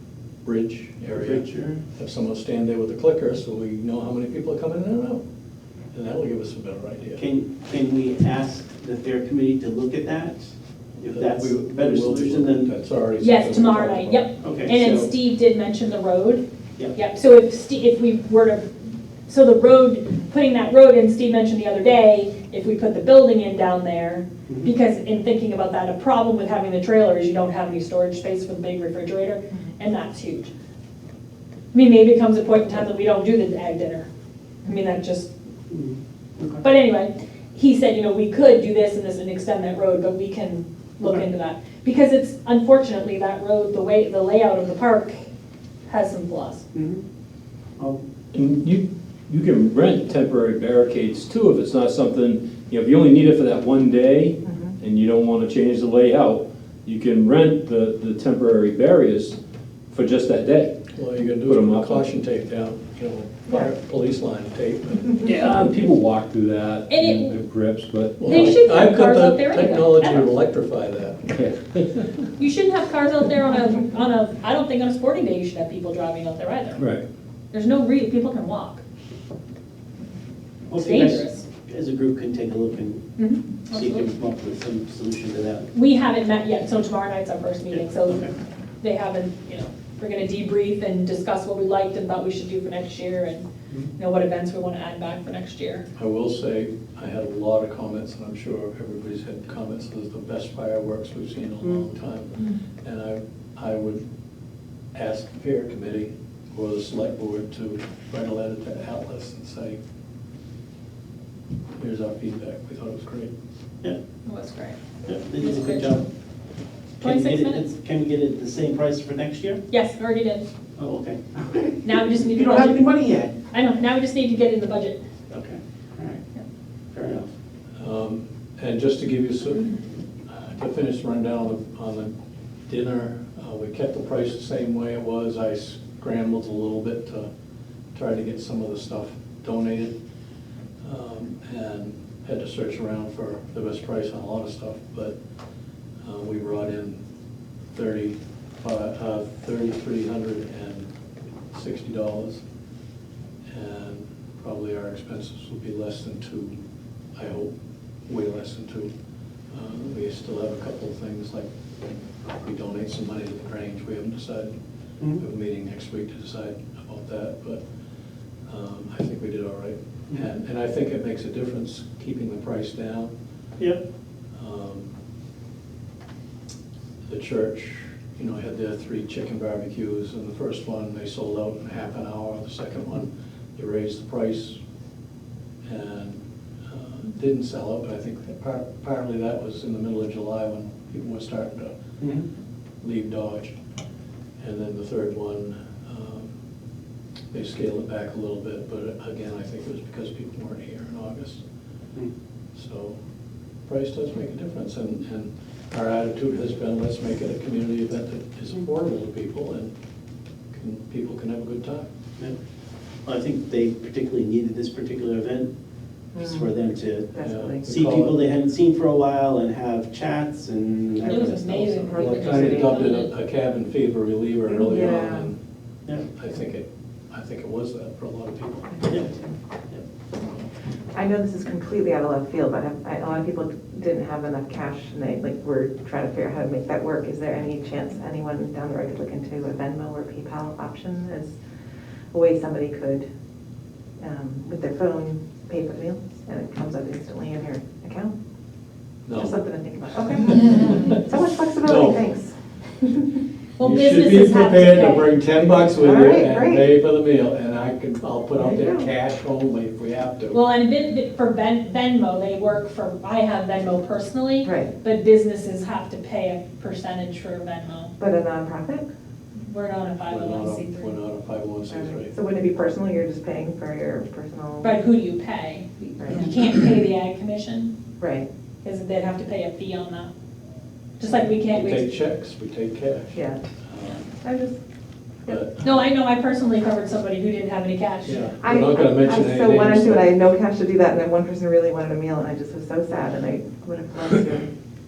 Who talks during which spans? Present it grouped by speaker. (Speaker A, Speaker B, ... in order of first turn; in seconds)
Speaker A: 0.4-5.2, 5.9-7.2, 11.0-14.3, 60.9-65.2, 68.2-71.3, 95.9-104.0, 104.9-109.8, 111.8-113.3, 127.8-129.7, 130.3-132.1, 132.7-137.3, 137.9-140.0, 140.8-145.2, 146.0-147.0, 147.7-150.9, 151.5-152.4, 153.5-156.5, 157.2-157.5, 158.1-158.9, 159.5-161.5, 162.4-164.6, 165.2-167.6, 168.4-173.1, 174.3-174.9, 177.1-184.6, 185.7-191.8, 192.8-193.6, 194.4-196.3, 197.3-201.4, 202.5-203.0, 203.7-209.7, 210.5-211.9, 217.2-218.2, 221.4-225.4, 226.0-228.7, 249.0-249.4, 250.0-251.0, 251.6-252.0, 253.6-260.4, 270.1-272.1, 281.4-284.1, 285.3-285.7, 288.0-290.1
Speaker B: 1.1-1.8, 7.2-12.7, 14.4-15.1, 35.7-36.6, 46.7-47.0, 80.7-83.1, 83.7-85.7, 87.7-88.3, 115.0-116.0, 117.0-119.6, 120.8-123.3, 125.3-126.2, 126.9-127.3, 192.0-192.2, 213.0-215.5, 216.1-221.7
Speaker C: 13.2-30.5, 31.7-34.0, 34.6-35.3, 36.6-45.1, 45.9-46.6, 66.9-67.4, 68.2-70.3, 72.4-76.8, 77.5-78.8, 80.7-81.4, 83.2-84.1, 85.7-88.3, 88.8-95.8, 114.2-116.0, 117.0-117.6, 119.7-120.5, 121.8-122.9, 123.5-125.0, 221.0-223.1, 253.6-255.1, 260.3-267.9, 269.4-271.0, 274.6-277.7, 278.6-280.1, 281.0-282.0, 285.6-288.2
Speaker D: 48.3-59.4, 59.9-60.8, 61.4-62.0, 65.2-68.5, 71.3-72.1, 76.8-77.0
Speaker E: 54.4-54.7, 216.1-216.4, 217.1-217.7, 222.1-222.6, 224.6-225.3, 228.7-229.3, 230.9-241.3, 242.1-243.0, 244.0-248.1, 249.1-253.1, 255.8-256.7, 258.3-258.9, 264.4-264.7, 268.0-268.9, 271.7-274.7, 276.0-276.3, 278.0-278.3, 283.1-283.4, 284.2-284.6, 288.4-294.5